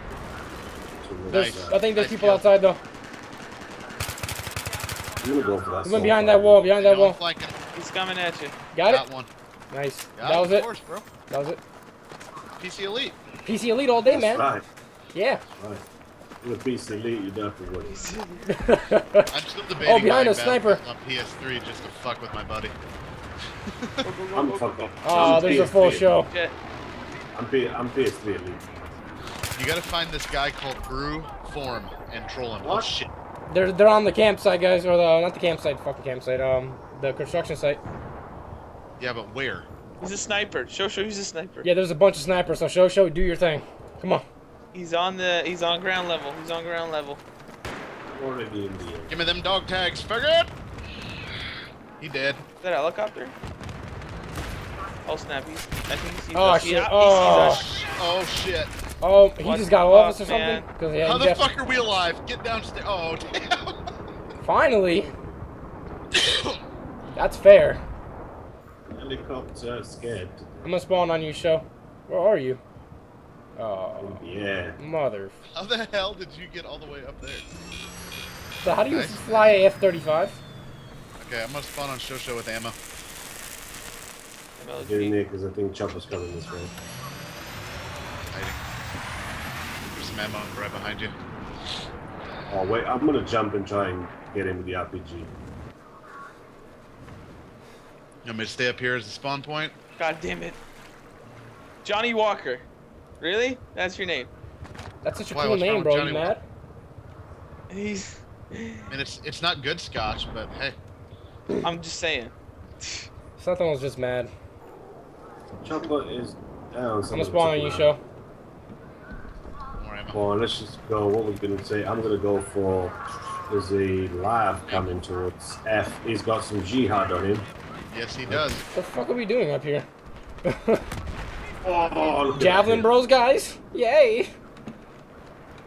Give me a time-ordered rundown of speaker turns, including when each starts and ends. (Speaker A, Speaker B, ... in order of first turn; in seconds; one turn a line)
Speaker A: 0.9-1.8
Speaker B: 1.3-2.5
Speaker C: 1.3-2.8
Speaker A: 5.2-6.6
Speaker C: 5.8-7.2
Speaker B: 6.7-7.6
Speaker D: 7.7-8.6
Speaker C: 8.7-9.0
Speaker B: 8.8-9.3
Speaker C: 9.7-10.7
Speaker B: 10.2-11.1
Speaker C: 11.3-11.6
Speaker B: 12.6-13.2
Speaker C: 13.4-14.5
Speaker A: 14.1-14.6
Speaker C: 15.1-15.4
Speaker A: 15.4-15.8
Speaker A: 16.4-18.0
Speaker D: 17.9-18.5
Speaker C: 18.5-19.3
Speaker B: 19.3-22.7
Speaker C: 19.8-20.8
Speaker B: 23.6-24.1
Speaker D: 24.0-26.6
Speaker A: 24.3-26.1
Speaker C: 25.0-26.3
Speaker A: 27.3-28.9
Speaker B: 29.5-33.1
Speaker A: 32.6-32.9
Speaker C: 33.5-37.8
Speaker B: 39.0-39.7
Speaker D: 40.0-41.7
Speaker C: 41.6-44.2
Speaker D: 44.7-47.2
Speaker A: 48.0-49.2
Speaker B: 49.1-50.5
Speaker B: 52.0-52.4
Speaker D: 52.6-53.3
Speaker D: 55.0-57.7
Speaker C: 56.3-57.6
Speaker B: 57.2-58.7
Speaker C: 59.0-61.4
Speaker D: 59.4-60.6
Speaker B: 61.0-63.9
Speaker C: 64.4-65.1
Speaker B: 66.1-66.6
Speaker C: 67.2-67.8
Speaker A: 68.9-70.6
Speaker C: 70.6-72.6
Speaker C: 73.5-74.2
Speaker A: 74.0-74.8
Speaker C: 74.8-75.4
Speaker B: 75.5-77.5
Speaker C: 78.6-80.4
Speaker B: 78.9-79.5
Speaker B: 81.2-82.8
Speaker D: 84.6-85.2
Speaker A: 84.8-86.7
Speaker B: 88.3-88.6
Speaker B: 89.8-91.2
Speaker A: 92.5-95.4
Speaker B: 98.2-99.8
Speaker D: 100.0-100.6
Speaker D: 101.8-102.6
Speaker D: 103.2-104.3
Speaker C: 105.0-106.4
Speaker B: 105.3-106.3
Speaker D: 107.7-108.9
Speaker B: 108.9-110.8
Speaker D: 111.6-113.1
Speaker C: 113.4-114.3
Speaker A: 115.6-117.9
Speaker C: 117.1-118.0
Speaker B: 119.8-120.2
Speaker A: 120.1-123.0
Speaker A: 123.5-127.5
Speaker B: 127.9-128.6
Speaker C: 128.7-129.9
Speaker C: 130.4-130.8
Speaker A: 131.6-132.9
Speaker C: 132.3-134.3